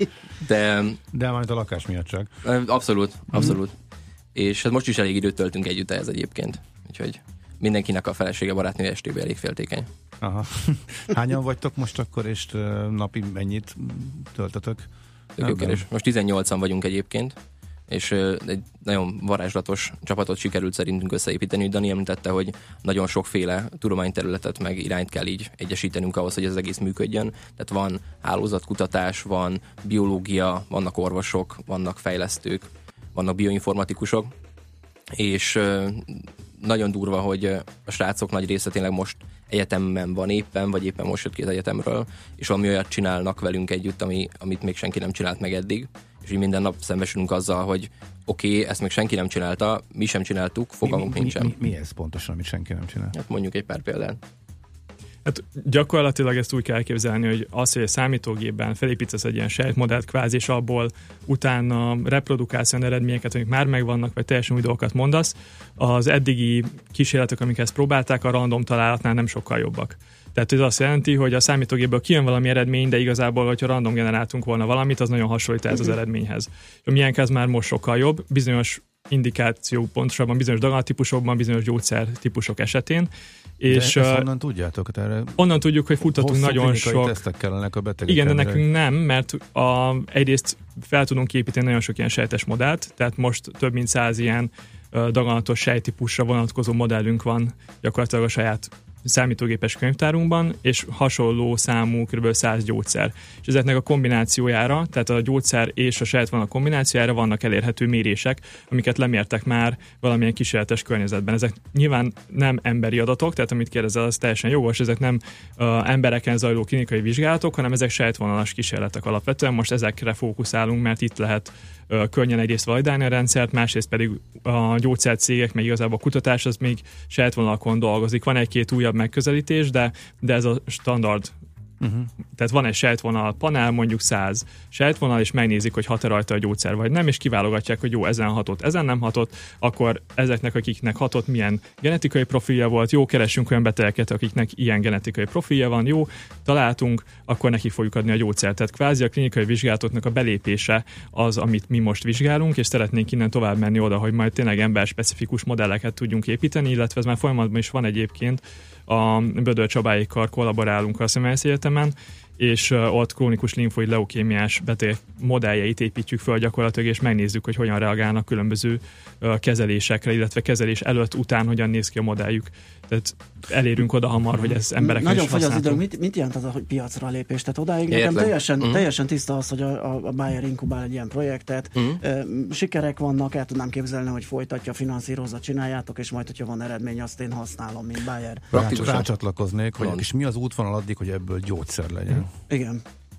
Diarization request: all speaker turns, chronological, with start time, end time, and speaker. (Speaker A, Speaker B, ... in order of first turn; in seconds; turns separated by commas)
Speaker A: 0.5-1.0, Speaker B: 1.1-2.3, Speaker A: 2.4-3.7, Speaker A: 4.3-9.9, Speaker B: 10.2-14.9, Speaker A: 15.4-17.4, Speaker B: 15.4-15.8, Speaker A: 17.9-34.3, Speaker A: 35.2-51.5, Speaker B: 50.9-53.1, Speaker A: 53.1-54.2, Speaker C: 55.2-84.3, Speaker B: 83.7-85.4, Speaker C: 85.4-87.2, Speaker B: 86.0-88.7, Speaker C: 88.1-131.3, Speaker B: 131.8-132.1, Speaker C: 132.3-175.8, Speaker D: 174.4-188.5, Speaker A: 177.9-178.9, Speaker B: 188.5-192.3, Speaker A: 188.5-189.1, Speaker A: 189.8-190.1, Speaker D: 192.5-192.8